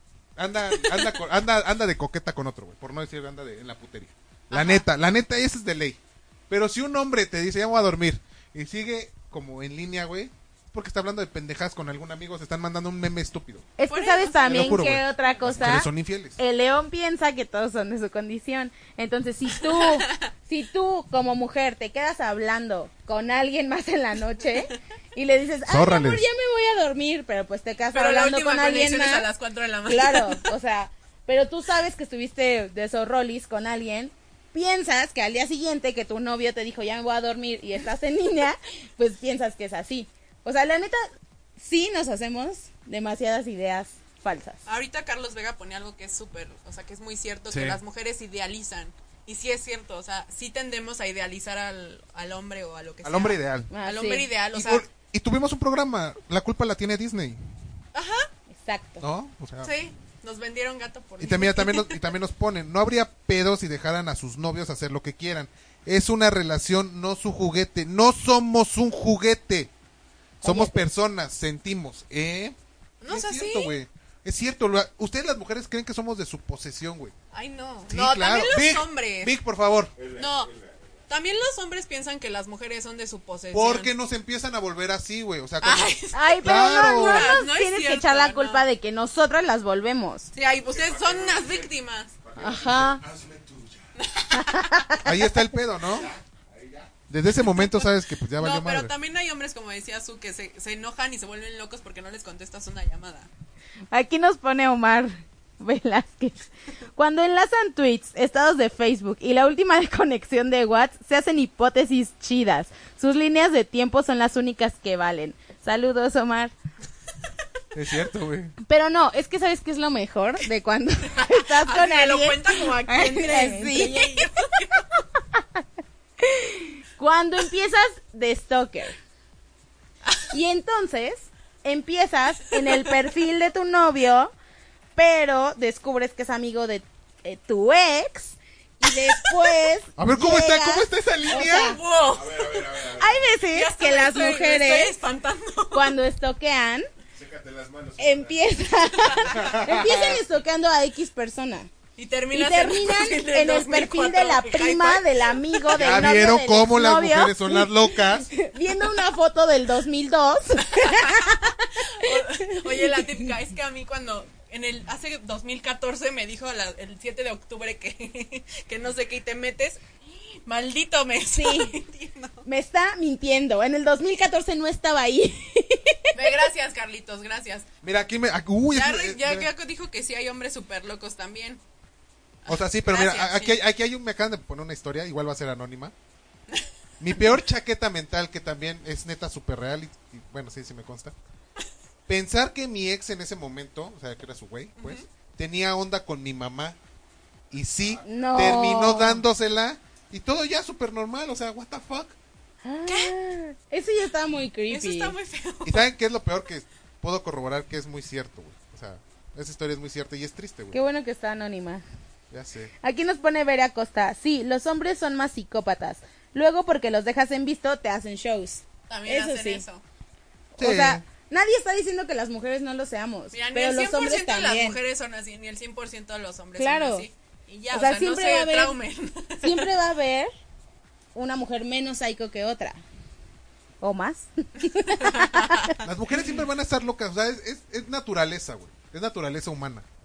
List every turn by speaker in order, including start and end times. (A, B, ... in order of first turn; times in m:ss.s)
0:00.4-0:13.6 A
0:00.8-0:01.1 B
0:04.5-0:04.8 B
0:13.8-0:29.2 C
0:13.9-0:14.9 B
0:14.4-0:16.4 A
0:19.6-0:20.3 B
0:25.7-0:26.3 A
0:27.9-0:30.4 B
0:29.9-0:41.0 C
0:41.6-0:44.6 C
0:44.6-0:54.8 B
0:47.5-0:47.8 A
0:53.0-0:53.7 A
0:53.7-0:54.3 C
0:54.5-0:57.4 A
0:57.9-0:58.3 B
0:58.5-0:59.0 C
0:59.0-0:59.7 A
0:59.6-1:02.0 B
1:01.2-1:09.7 A
1:10.4-1:10.8 C
1:10.4-1:12.6 A
1:13.0-1:13.8 B
1:13.1-1:17.1 A
1:17.3-1:19.3 B
1:17.9-1:19.9 A
1:19.9-1:21.0 D
1:20.2-1:20.5 B
1:21.1-1:23.9 B
1:23.5-1:27.4 A
1:25.6-1:28.6 B
1:26.1-1:30.3 C
1:30.3-1:32.1 B
1:30.6-1:31.7 D
1:32.2-1:33.9 D
1:32.4-1:33.0 C
1:34.0-1:34.7 B
1:34.3-1:35.1 C
1:35.0-1:36.1 A
1:35.9-1:37.0 D
1:37.1-1:38.9 A
1:37.5-1:37.9 B
1:38.4-1:43.3 B
1:43.9-1:46.4 C
1:47.0-1:56.5 C
1:57.7-1:58.5 A
1:58.6-2:04.3 C
2:01.1-2:04.8 B
2:05.3-2:05.6 C
2:06.2-2:09.0 C
2:10.3-2:14.3 C
2:12.6-2:12.9 B
2:15.0-2:21.8 C
2:19.1-2:19.3 B
2:20.0-2:21.8 A
2:21.3-2:22.8 B
2:22.1-2:23.3 D
2:23.0-2:25.0 C
2:23.4-2:25.9 B
2:25.7-2:26.9 C
2:27.1-2:30.1 D
2:28.0-2:31.7 C
2:29.0-2:29.3 B
2:29.4-2:30.2 A
2:32.0-2:35.8 B
2:32.3-2:43.2 C
2:35.7-2:38.3 A
2:40.7-2:52.4 B
2:51.4-2:51.7 C
2:52.4-2:56.4 C
2:56.1-2:57.7 B
2:57.8-2:59.5 A
2:58.7-3:01.6 B
3:02.4-3:03.6 B
3:02.5-3:05.9 A
3:07.0-3:11.1 A
3:12.1-3:16.8 A
3:14.8-3:15.0 B
3:17.5-3:22.1 A
3:18.0-3:19.2 C
3:22.6-3:25.1 C
3:22.9-3:23.1 B
3:24.7-3:25.8 B
3:25.6-3:30.8 A
3:30.7-3:31.8 C
3:32.3-3:32.7 A
3:32.8-3:39.6 C
3:38.9-3:39.8 B
3:40.6-3:44.8 C
3:40.6-3:41.0 A
3:43.3-3:49.7 B
3:46.6-3:47.1 C
3:47.7-3:48.7 C
3:49.4-3:50.3 C
3:51.1-3:52.8 C
3:53.8-3:55.8 C
3:55.0-3:55.8 B
3:55.8-3:59.8 A